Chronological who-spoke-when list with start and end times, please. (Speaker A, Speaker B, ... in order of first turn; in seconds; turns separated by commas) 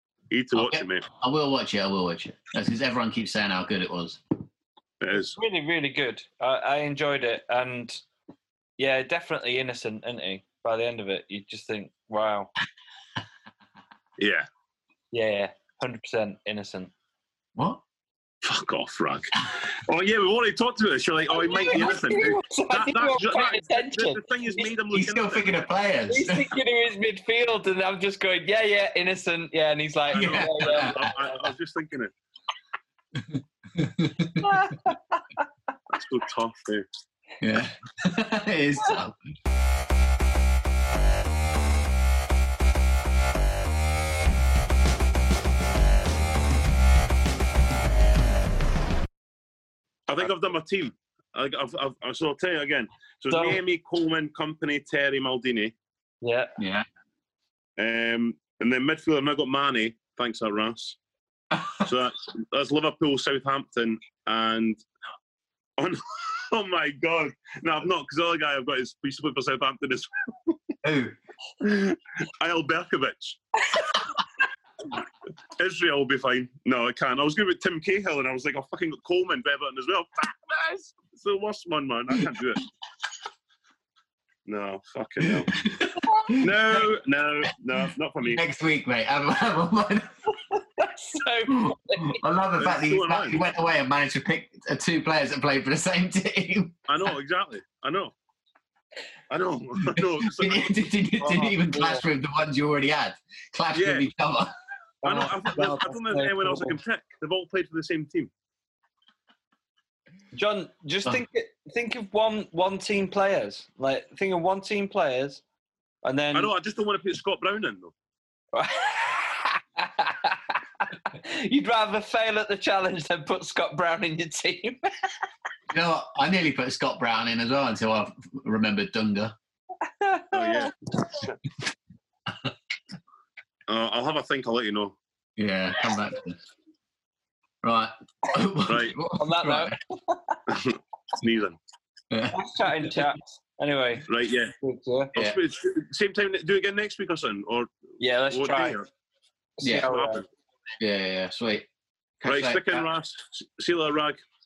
Speaker A: 0.3-1.0, Speaker B: 0.5-4.2, Speaker A: 5.0-5.4, Speaker C: 5.2-8.0, Speaker C: 8.8-12.5, Speaker A: 14.2-14.5, Speaker C: 15.1-16.9, Speaker B: 17.6-17.8, Speaker A: 18.4-25.5, Speaker C: 21.3-24.7, Speaker B: 24.9-26.5, Speaker C: 26.1-31.1, Speaker A: 30.1-32.1, Speaker B: 30.1-31.1, Speaker B: 33.1-34.7, Speaker C: 34.4-35.5, Speaker A: 35.9-36.9, Speaker B: 37.4-39.2, Speaker A: 50.1-55.7, Speaker C: 53.3-53.6, Speaker C: 56.2-56.5, Speaker B: 56.6-56.9, Speaker A: 57.8-61.0, Speaker B: 61.5-61.8, Speaker A: 61.8-64.8, Speaker A: 65.8-70.6, Speaker B: 70.8-71.1, Speaker A: 71.6-73.4, Speaker A: 75.6-82.6, Speaker A: 84.5-85.6, Speaker B: 85.2-86.9, Speaker A: 86.4-88.4, Speaker B: 87.8-90.3, Speaker C: 90.5-92.2, Speaker B: 91.5-96.8, Speaker A: 92.6-93.4, Speaker A: 96.9-98.1, Speaker A: 99.3-100.7, Speaker B: 99.9-104.5, Speaker C: 101.2-102.0, Speaker A: 103.7-104.1, Speaker C: 105.0-106.8, Speaker A: 105.0-108.3, Speaker C: 110.3-115.4, Speaker C: 116.0-116.5, Speaker A: 116.3-117.9, Speaker C: 118.5-124.9, Speaker B: 125.7-129.3, Speaker C: 129.8-130.7, Speaker A: 130.3-131.4, Speaker A: 133.7-135.0, Speaker B: 135.4-136.4, Speaker B: 137.6-139.7, Speaker A: 138.7-139.0, Speaker C: 139.1-140.4, Speaker A: 140.5-141.6, Speaker B: 142.1-143.1, Speaker C: 142.3-144.1, Speaker A: 144.1-144.5, Speaker C: 144.6-145.1, Speaker A: 145.1-147.7, Speaker C: 148.0-148.8, Speaker A: 148.3-148.8, Speaker C: 149.6-150.2, Speaker B: 149.6-149.9, Speaker A: 149.9-150.2, Speaker B: 150.8-151.7, Speaker B: 152.2-152.8, Speaker A: 152.2-154.2